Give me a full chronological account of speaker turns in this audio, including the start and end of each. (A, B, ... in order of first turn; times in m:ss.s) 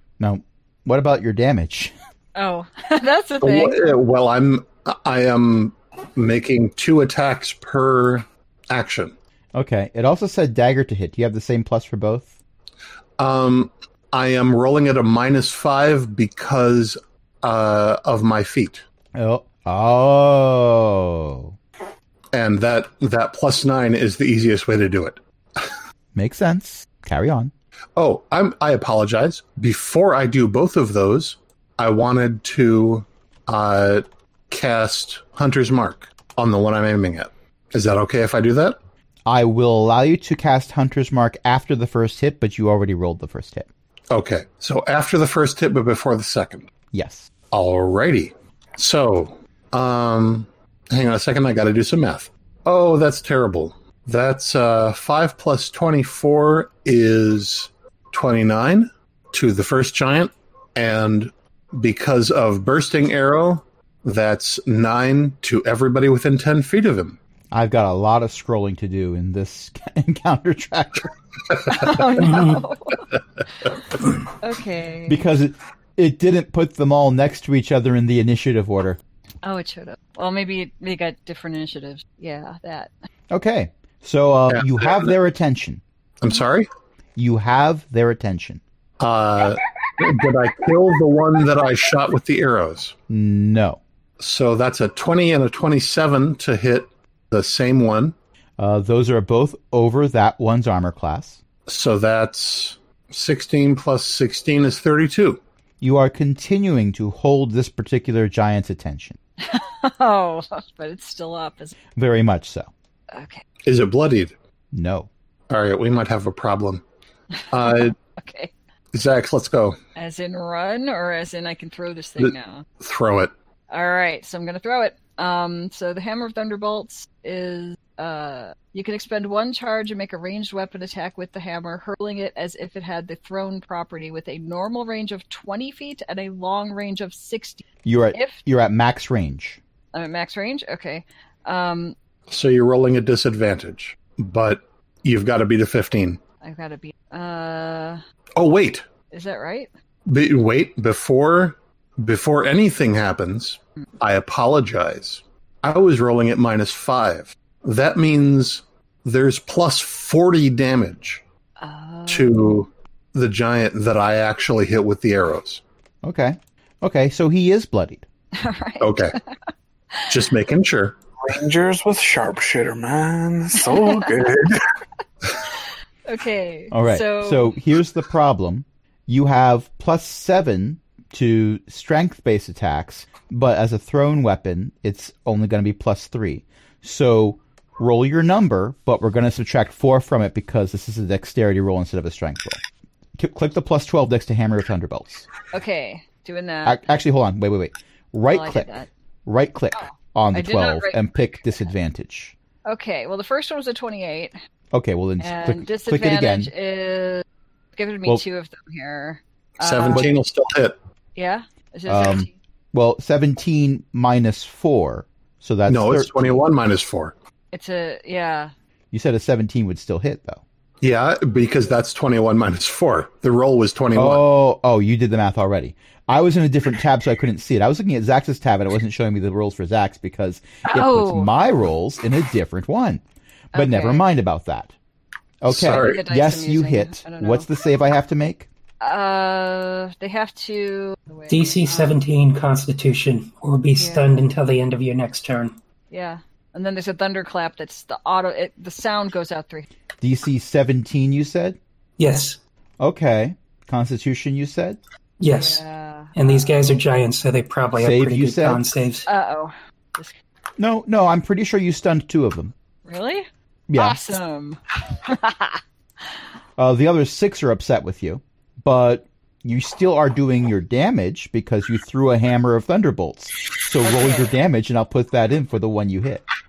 0:00.2-0:01.9 A
0:02.4-0:04.0 B
0:03.4-0:09.1 C
0:09.5-0:12.4 A
0:13.2-0:18.8 C
0:19.2-0:21.6 A
0:22.3-0:25.7 C
0:26.2-0:27.5 A
0:28.0-0:38.8 C
0:39.3-0:43.7 A
0:44.1-0:46.7 C
0:46.9-0:47.3 A
0:47.5-1:07.2 C
1:07.5-1:11.1 A
1:11.7-1:13.8 B
1:12.2-1:12.6 D
1:14.4-1:15.2 B
1:15.1-1:19.0 A
1:19.4-1:22.9 B
1:23.3-1:25.8 A
1:24.5-1:25.1 C
1:26.2-1:26.7 C
1:27.2-1:28.6 A
1:29.0-1:33.0 C
1:33.1-1:33.8 A
1:34.2-1:38.2 C
1:38.6-1:41.4 A
1:41.7-1:45.4 C
1:45.8-1:49.2 A
1:49.4-1:51.8 B
1:52.0-1:52.7 A
1:53.1-1:53.4 B
1:53.6-1:54.4 C
1:54.7-1:55.1 A
1:55.5-1:56.8 C
1:57.5-1:58.0 C
1:57.5-1:58.5 B
1:58.9-1:59.8 C
2:00.0-2:02.7 B
2:02.2-2:03.3 C
2:03.7-2:18.4 B
2:17.8-2:19.6 A
2:19.9-2:22.0 B
2:22.3-2:26.2 C
2:26.4-2:28.0 B
2:28.4-2:28.9 C
2:29.1-2:29.7 B
2:30.1-2:41.2 C
2:41.6-2:42.6 B
2:42.1-2:45.6 C
2:46.0-2:48.1 A
2:48.4-2:49.2 B
2:48.8-2:49.2 C
2:50.1-2:51.0 C
2:51.2-2:54.6 E
2:53.7-2:54.1 B
2:56.1-2:57.5 B
2:56.7-3:12.6 A
3:13.2-3:15.3 A
3:15.5-3:16.8 B
3:16.6-3:18.7 A
3:18.3-3:18.9 B
3:19.3-3:22.4 A
3:19.7-3:21.0 B
3:22.7-3:24.4 B
3:24.7-3:26.5 A
3:25.2-3:30.2 B
3:29.6-3:30.8 C
3:31.2-3:32.3 B
3:31.9-3:36.4 A
3:35.7-3:37.1 C
3:37.5-3:38.5 B
3:38.9-3:40.4 A
3:40.8-3:44.2 C
3:43.9-3:53.0 A
3:50.7-3:51.3 B
3:53.5-3:54.1 B
3:53.5-3:54.7 A
3:55.4-3:58.5 A
3:55.5-3:56.0 C
3:55.7-3:57.5 B
3:58.8-4:02.0 B
4:01.3-4:05.5 D
4:03.8-4:04.2 B
4:05.9-4:09.7 B
4:10.0-4:11.6 A
4:12.0-4:12.4 D
4:12.8-4:14.8 A
4:15.2-4:15.6 D
4:15.3-4:16.5 B
4:16.2-4:19.1 D
4:17.8-4:18.6 A
4:19.1-4:20.2 B
4:20.6-4:22.5 A
4:22.8-4:25.6 B
4:23.7-4:24.2 A
4:26.6-4:36.2 A
4:33.8-4:34.3 B